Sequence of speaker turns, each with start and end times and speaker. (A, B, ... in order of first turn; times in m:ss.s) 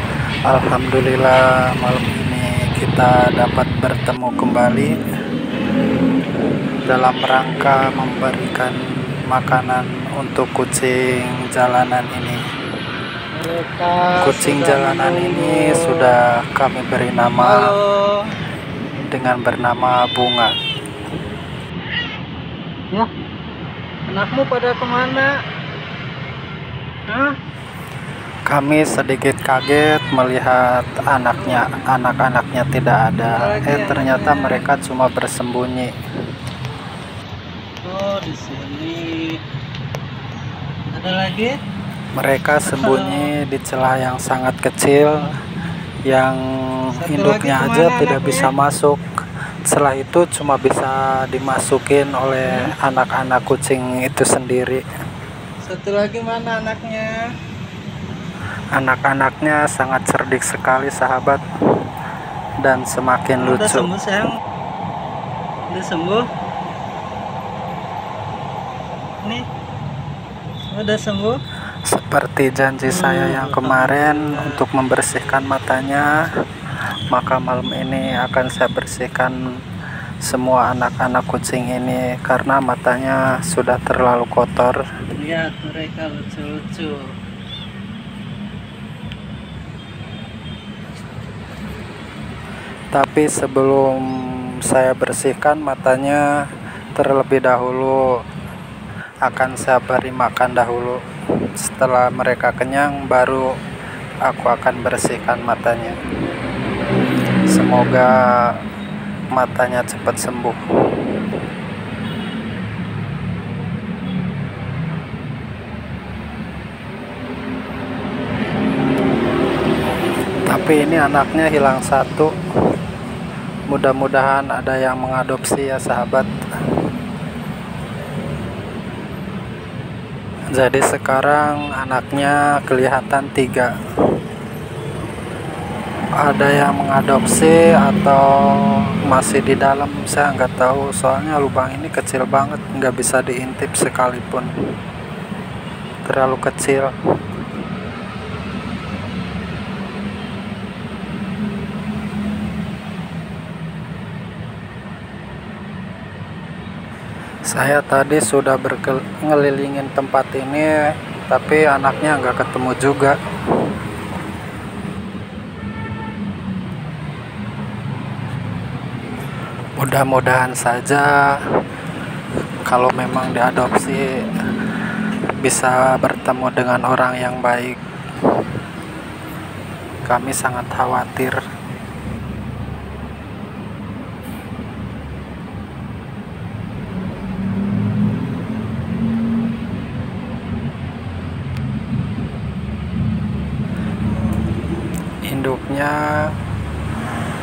0:00.5-0:04.9 A
0:06.9-0:08.8 A
0:09.3-0:12.4 A
0:13.4-0:16.2 B
0:14.2-0:17.8 A
0:17.4-0:18.3 B
0:19.0-0:20.5 A
0:24.1-0:25.3 B
0:27.1-0:27.4 B
0:28.5-0:35.9 A
0:31.4-0:31.7 B
0:33.2-0:34.7 B
0:37.8-0:39.4 B
0:40.9-0:41.5 B
0:42.2-0:45.3 A
0:42.6-0:43.2 B
0:46.1-0:49.0 A
0:47.0-0:48.5 B
0:49.7-0:54.8 A
0:55.7-0:57.2 B
0:58.8-1:01.4 A
1:02.6-1:03.9 A
1:03.4-1:04.3 B
1:05.7-1:06.3 B
1:10.7-1:11.4 B
1:11.9-1:16.1 A
1:12.9-1:14.6 B
1:17.1-1:19.4 A
1:20.2-1:24.8 A
1:25.2-1:27.0 B
1:32.9-1:36.2 A
1:37.0-1:38.0 A
1:39.3-1:41.0 A
1:41.6-1:43.5 A
1:44.3-1:46.0 A
1:47.5-1:48.6 A
1:49.3-1:51.1 A
2:00.5-2:02.3 A
2:03.7-2:06.3 A
2:10.6-2:13.7 A
2:16.2-2:24.5 A
2:26.1-2:26.9 A
2:37.5-2:40.7 A
2:41.3-2:43.2 A
2:49.8-2:51.2 A
2:52.7-2:54.0 A
2:55.4-2:57.8 A
3:00.1-3:01.4 A
3:15.3-3:16.0 A